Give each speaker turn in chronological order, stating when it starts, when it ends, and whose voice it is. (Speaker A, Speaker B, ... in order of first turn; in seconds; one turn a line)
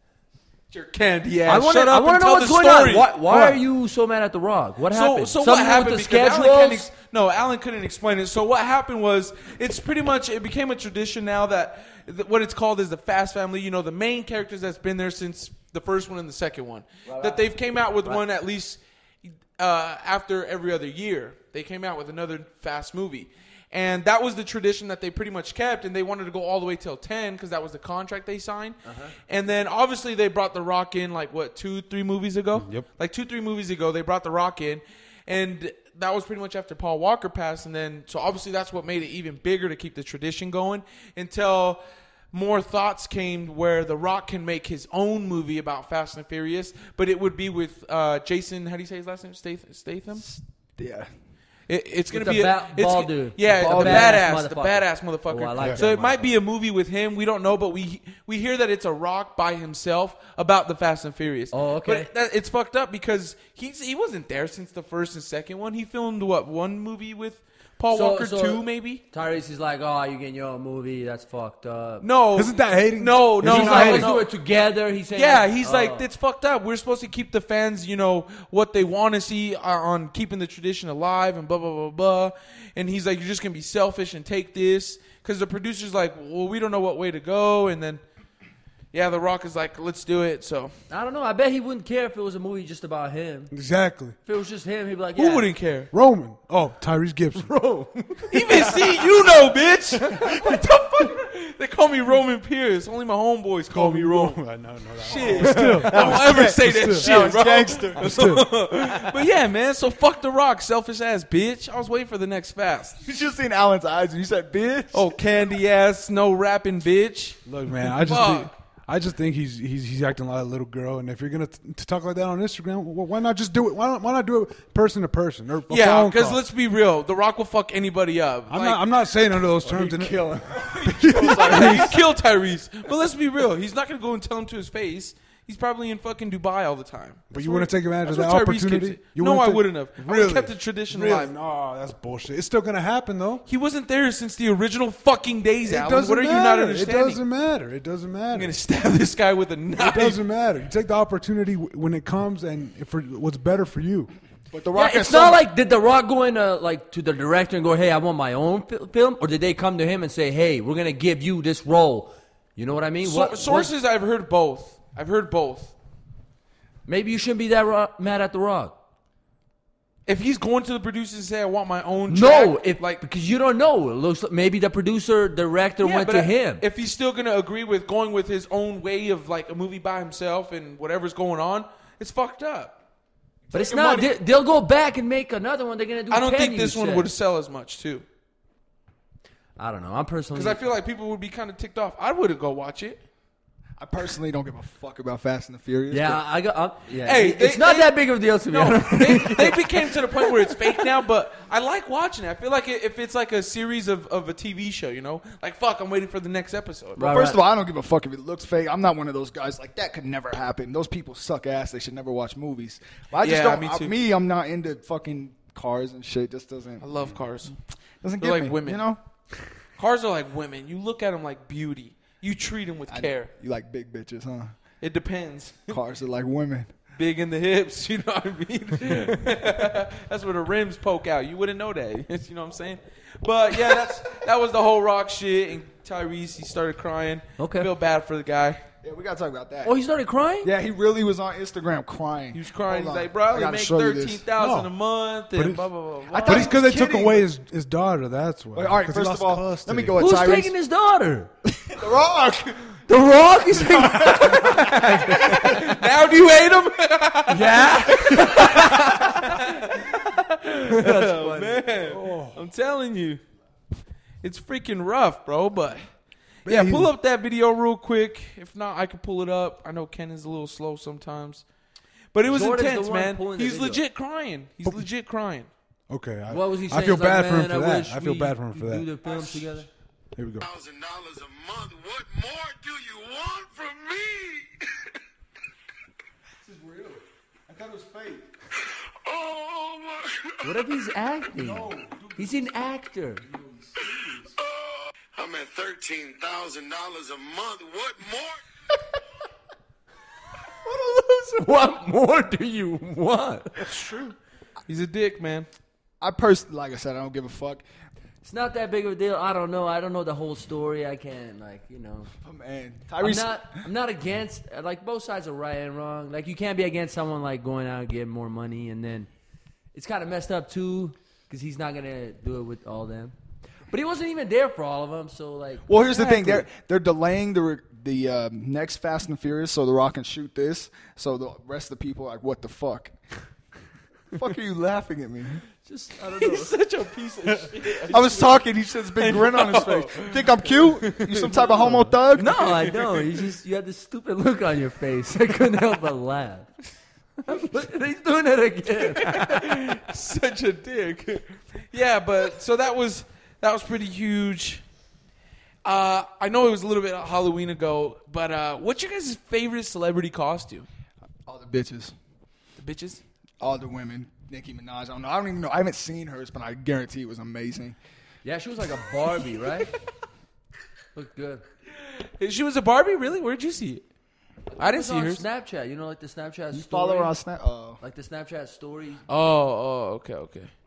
Speaker A: 0.7-3.2
Speaker B: 1.5-6.9
Speaker C: 3.3-3.6
Speaker A: 4.9-50.2
Speaker B: 17.1-17.5
Speaker B: 28.9-29.1
Speaker C: 32.6-32.9
Speaker D: 50.2-51.1
Speaker A: 51.7-69.0
Speaker B: 52.1-56.3
Speaker D: 53.6-54.2
Speaker B: 61.5-62.1
Speaker B: 67.9-72.0
Speaker A: 72.0-74.3
Speaker C: 72.3-74.2
Speaker B: 73.4-76.0
Speaker A: 75.1-88.0
Speaker A: 88.9-90.7
Speaker B: 90.9-93.5
Speaker C: 93.5-94.2
Speaker B: 94.2-95.5
Speaker A: 95.2-95.9
Speaker C: 95.9-97.5
Speaker B: 97.5-98.8
Speaker A: 98.3-104.4
Speaker C: 103.7-107.3
Speaker A: 105.0-113.0
Speaker D: 105.2-108.5
Speaker C: 108.0-108.5
Speaker D: 113.0-115.2
Speaker A: 114.9-117.4
Speaker C: 117.5-126.4
Speaker A: 117.9-118.5
Speaker A: 125.7-128.8
Speaker C: 128.5-132.0
Speaker B: 129.7-131.8
Speaker A: 130.8-141.3
Speaker C: 137.3-143.4
Speaker A: 143.4-147.2
Speaker C: 145.7-148.5
Speaker A: 148.3-150.2
Speaker C: 149.8-154.1
Speaker D: 154.5-155.4
Speaker B: 154.7-163.7
Speaker A: 163.0-165.7
Speaker B: 166.8-168.8
Speaker A: 170.1-173.0
Speaker B: 172.1-176.6
Speaker A: 175.8-182.8
Speaker D: 183.5-184.1
Speaker B: 183.5-187.1
Speaker A: 186.1-188.1
Speaker B: 189.6-190.6
Speaker A: 190.3-193.0
Speaker D: 193.8-196.2
Speaker B: 195.9-200.9
Speaker A: 197.0-207.1
Speaker B: 207.0-207.4
Speaker D: 207.0-216.8
Speaker A: 213.2-213.9
Speaker A: 216.8-217.6
Speaker D: 218.0-219.0
Speaker A: 218.2-218.8
Speaker A: 219.8-223.3
Speaker D: 222.9-224.6
Speaker A: 224.8-225.8
Speaker D: 225.7-226.7
Speaker A: 226.9-238.6
Speaker B: 237.4-237.7
Speaker D: 238.8-239.7
Speaker B: 239.6-240.5
Speaker D: 240.4-244.2
Speaker A: 242.3-246.5
Speaker C: 244.4-244.7
Speaker C: 245.3-245.7
Speaker D: 246.1-247.3
Speaker C: 246.2-250.0
Speaker D: 248.5-250.5
Speaker B: 249.9-251.3
Speaker D: 251.7-252.8
Speaker B: 252.9-255.8
Speaker D: 253.8-254.8
Speaker A: 254.3-263.2
Speaker B: 257.3-259.9
Speaker B: 260.7-261.7
Speaker C: 261.8-262.4
Speaker A: 264.2-265.8
Speaker C: 266.4-266.9
Speaker A: 266.4-271.4
Speaker A: 272.1-275.5
Speaker B: 272.2-273.8
Speaker C: 275.9-278.9
Speaker B: 276.3-279.7
Speaker D: 279.1-279.4
Speaker C: 280.1-280.4
Speaker E: 280.4-284.5
Speaker D: 286.4-288.3
Speaker E: 288.7-290.8
Speaker B: 290.4-293.2
Speaker D: 291.3-292.5
Speaker D: 293.3-294.3
Speaker E: 293.9-298.4
Speaker B: 300.6-303.7
Speaker A: 304.7-305.5
Speaker D: 306.0-307.6
Speaker B: 308.2-312.1
Speaker D: 312.2-313.6
Speaker B: 313.0-319.1
Speaker B: 319.7-323.1
Speaker B: 323.7-326.5
Speaker D: 325.7-332.9
Speaker D: 334.1-335.4
Speaker B: 335.6-336.5
Speaker A: 336.2-343.2
Speaker D: 337.9-342.3
Speaker B: 341.8-346.5
Speaker B: 347.2-349.7
Speaker A: 348.9-354.6
Speaker A: 355.6-360.7
Speaker D: 361.3-361.9
Speaker A: 362.6-363.0
Speaker D: 363.4-367.8
Speaker B: 368.2-369.8
Speaker B: 370.9-371.4
Speaker A: 371.8-373.8
Speaker A: 374.6-375.2
Speaker B: 374.6-377.1
Speaker D: 376.5-377.8
Speaker B: 377.8-379.0
Speaker A: 379.1-380.5